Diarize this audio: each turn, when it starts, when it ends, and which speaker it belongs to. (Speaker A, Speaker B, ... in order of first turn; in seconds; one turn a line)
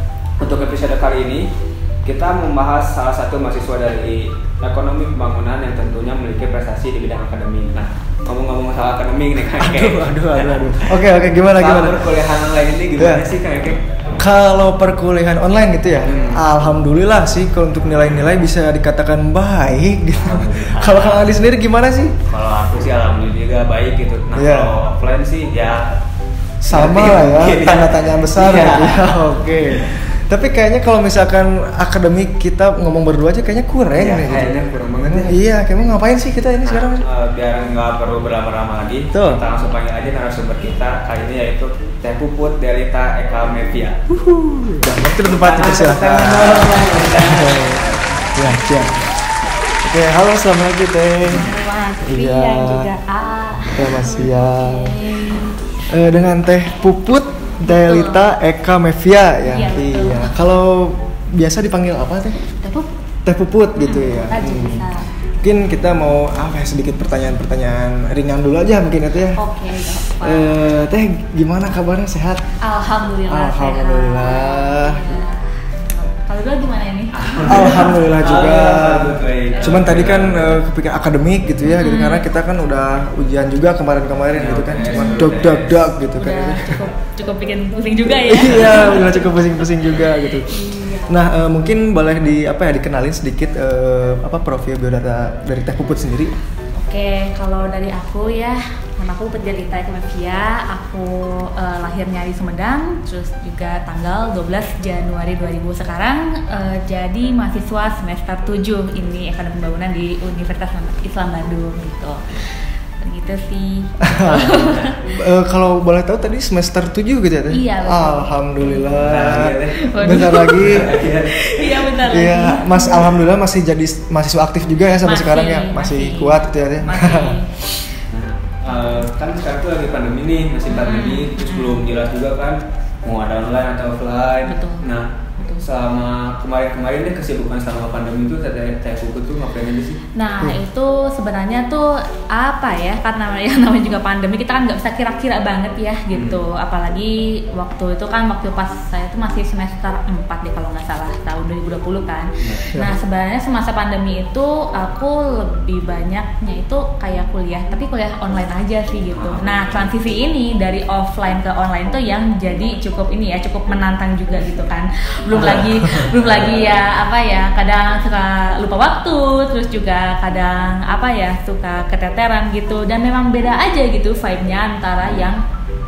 Speaker A: 0.4-1.4
Speaker A: 2.0-11.0
Speaker B: 9.6-12.2
Speaker A: 11.5-13.8
Speaker B: 13.0-13.2
Speaker B: 14.2-22.1
Speaker A: 16.0-16.4
Speaker A: 20.2-21.3
Speaker A: 22.3-25.8
Speaker B: 24.3-24.8
Speaker B: 26.6-37.0
Speaker A: 26.7-29.9
Speaker A: 34.0-35.4
Speaker A: 36.6-44.0
Speaker B: 39.1-39.4
Speaker B: 44.1-47.8
Speaker A: 45.2-48.0
Speaker B: 48.3-49.0
Speaker B: 49.8-51.4
Speaker C: 51.3-55.9
Speaker B: 52.0-52.9
Speaker B: 53.7-55.0
Speaker B: 55.9-62.4
Speaker C: 57.6-58.3
Speaker C: 59.4-60.4
Speaker C: 62.5-62.9
Speaker B: 63.2-64.8
Speaker C: 63.8-65.1
Speaker B: 65.4-69.4
Speaker C: 69.3-70.6
Speaker B: 70.0-72.4
Speaker C: 72.6-78.0
Speaker B: 73.3-75.2
Speaker A: 77.1-80.6
Speaker B: 77.5-86.8
Speaker C: 79.5-79.9
Speaker C: 81.6-82.3
Speaker A: 84.3-85.9
Speaker C: 84.8-85.3
Speaker C: 86.1-91.2
Speaker B: 88.2-90.5
Speaker B: 91.1-96.3
Speaker C: 96.7-115.0
Speaker B: 114.0-121.0
Speaker C: 117.5-119.0
Speaker A: 119.0-122.0
Speaker C: 119.7-123.1
Speaker B: 122.0-127.8
Speaker C: 125.0-127.5
Speaker A: 128.1-135.1
Speaker C: 128.7-129.1
Speaker C: 130.7-131.8
Speaker C: 134.4-135.6
Speaker A: 135.6-140.0
Speaker C: 140.2-175.4
Speaker A: 146.1-146.4
Speaker A: 152.4-152.7
Speaker A: 159.1-159.6
Speaker A: 165.4-166.8